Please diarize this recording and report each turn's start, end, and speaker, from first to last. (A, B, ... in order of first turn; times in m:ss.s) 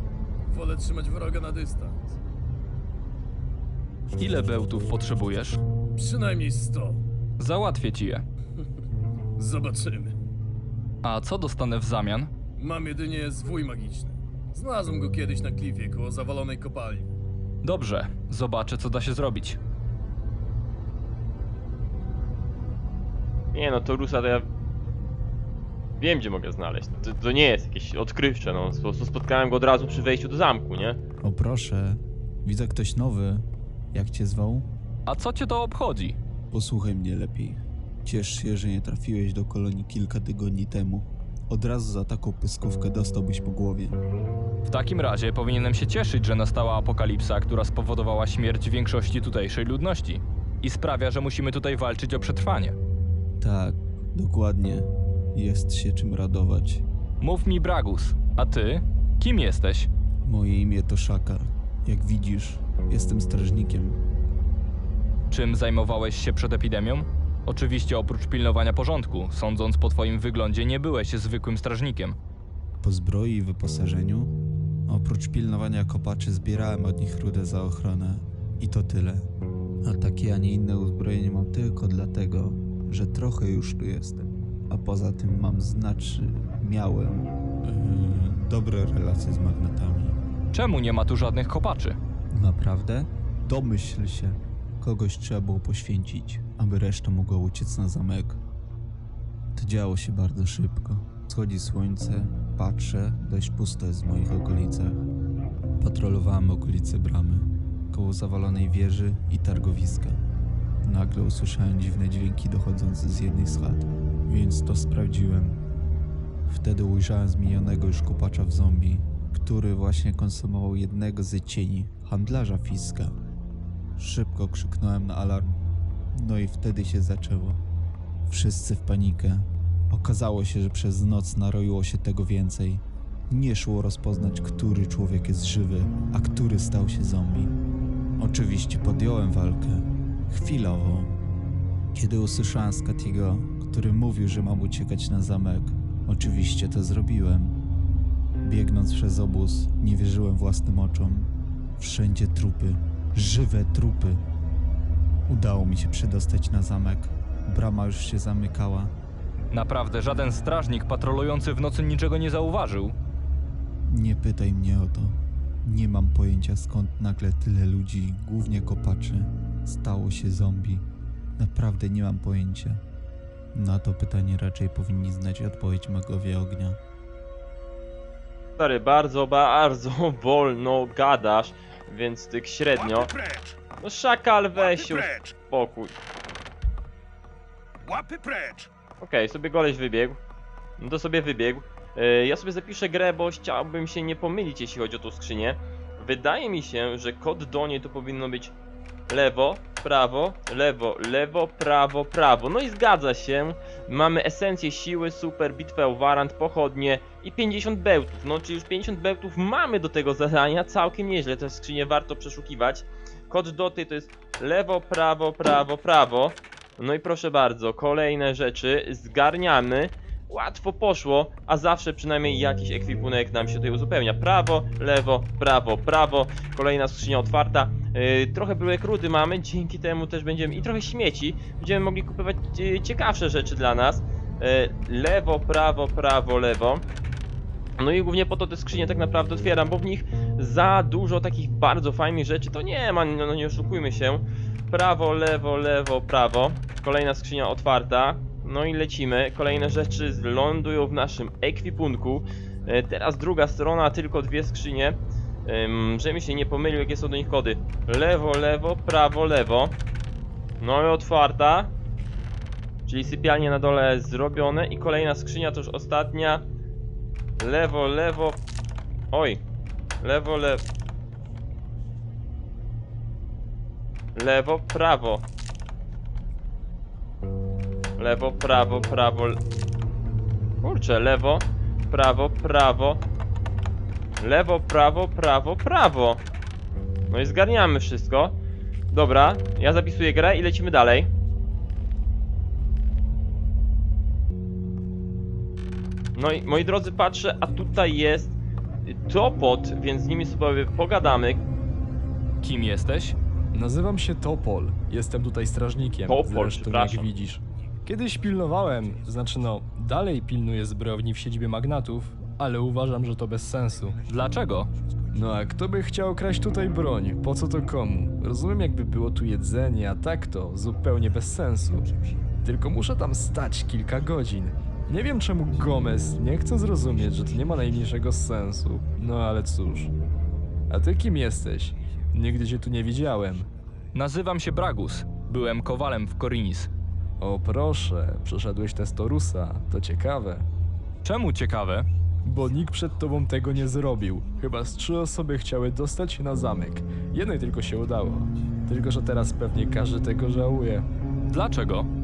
0:00.5-0:02.2 A
0:04.2-0:05.6 B
0:06.0-0:07.0 A
0:07.4-0:08.2 B
0:09.4-0:10.1 A
0:11.0-0:12.3 B
0:12.6-0:17.1 A
0:17.6-0:19.6 B
0:23.5-0:24.5 C
0:26.0-0:31.0 C
0:31.2-0:34.7 D
0:35.1-0:36.2 B
0:36.5-0:44.0 D
0:44.6-0:52.8 B
0:53.4-0:56.8 D
0:57.2-0:59.9 B
1:00.2-1:04.0 D
1:05.3-1:12.2 B
1:12.8-1:14.3 D
1:14.9-1:19.3 D
1:19.8-1:30.2 D
1:30.5-1:32.0 B
1:32.3-1:38.4 D
1:39.5-1:45.0 D
1:45.8-1:50.2 D
1:50.8-1:55.6 D
1:56.4-2:03.2 D
2:04.0-2:05.6 D
2:06.1-2:07.6 D
2:08.3-2:17.5 D
2:18.2-2:21.2 D
2:21.9-2:27.6 D
2:28.4-2:34.2 D
2:35.3-2:38.9 D
2:39.5-2:43.0 B
2:43.8-2:50.8 D
2:51.4-2:52.8 D
2:53.5-2:56.8 D
2:58.6-3:03.1 C
3:03.8-3:05.9 C
3:09.0-3:10.2 C
3:10.8-3:18.5 C
3:19.1-3:56.8 C
3:57.8-4:19.8 C
4:20.6-4:21.7 C
4:22.9-4:26.4 C
4:27.4-4:28.4 C
4:29.1-4:29.4 C
4:30.0-4:30.6 C
4:34.2-4:35.2 C
4:38.0-4:39.4 C
4:40.6-4:43.0 C
4:44.2-4:46.2 C
4:47.1-4:48.4 C
4:48.9-4:51.1 C
4:56.1-5:01.4 C
5:02.4-5:03.2 B
5:03.5-5:14.0 E
5:06.0-5:07.1 C
5:14.1-5:14.7 B
5:15.1-5:21.9 E
5:22.4-5:29.9 E
5:30.7-5:33.5 E
5:33.9-5:36.7 B
5:37.2-5:40.5 E
5:41.0-5:41.9 B
5:42.2-5:50.9 E
5:51.3-5:51.9 B